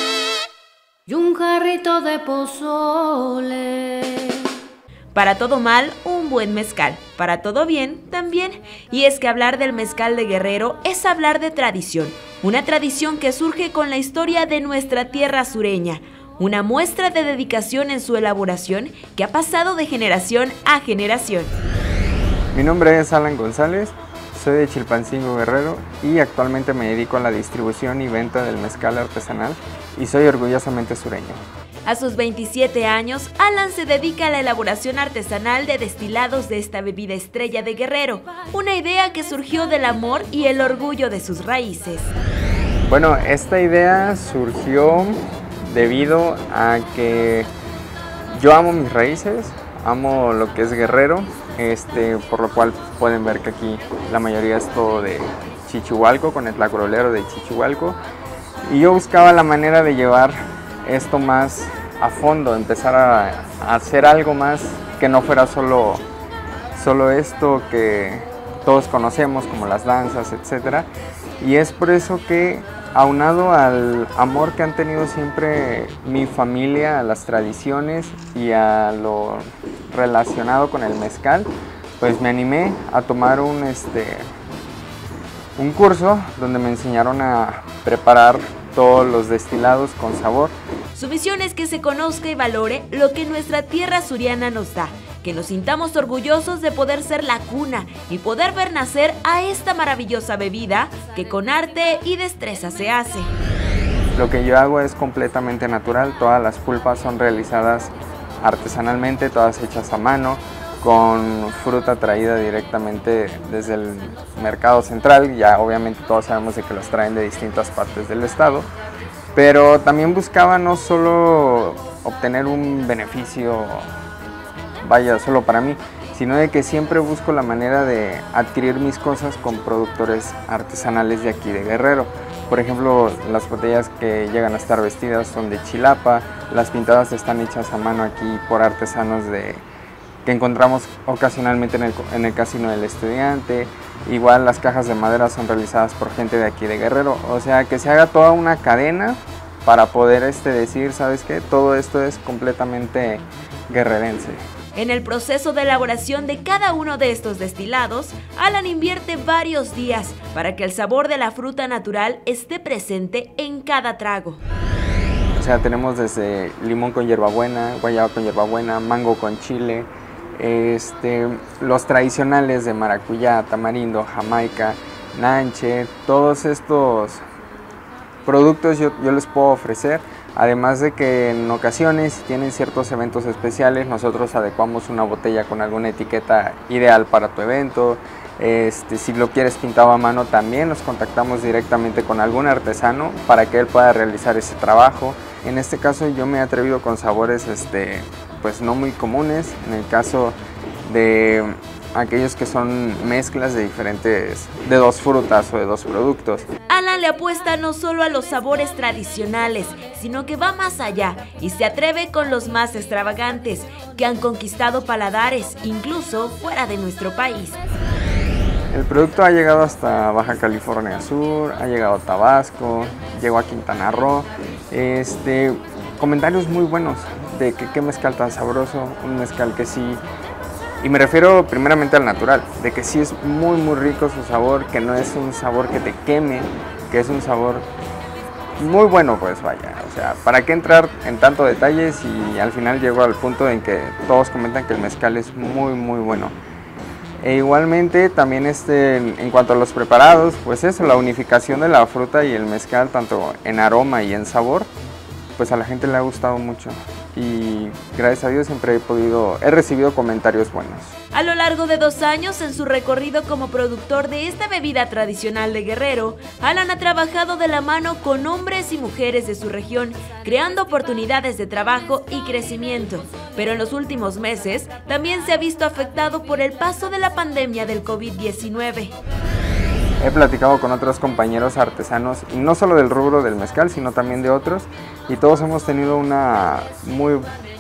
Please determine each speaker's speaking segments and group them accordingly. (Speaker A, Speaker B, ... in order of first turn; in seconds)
Speaker A: 1.1-4.5
Speaker B: 5.2-21.6, 31.9-42.1, 90.9-103.3, 154.8-164.4, 206.7-217.6, 261.1-278.9
Speaker C: 22.5-31.4, 42.9-47.5, 48.3-58.0, 58.6-66.0, 66.7-84.3, 85.6-90.5, 104.2-118.7, 119.3-123.9, 124.8-139.7, 140.2-154.4, 165.4-177.2, 178.2-206.5, 218.7-230.0, 230.8-237.7, 238.6-246.3, 247.2-254.7, 255.4-260.9, 280.0-287.2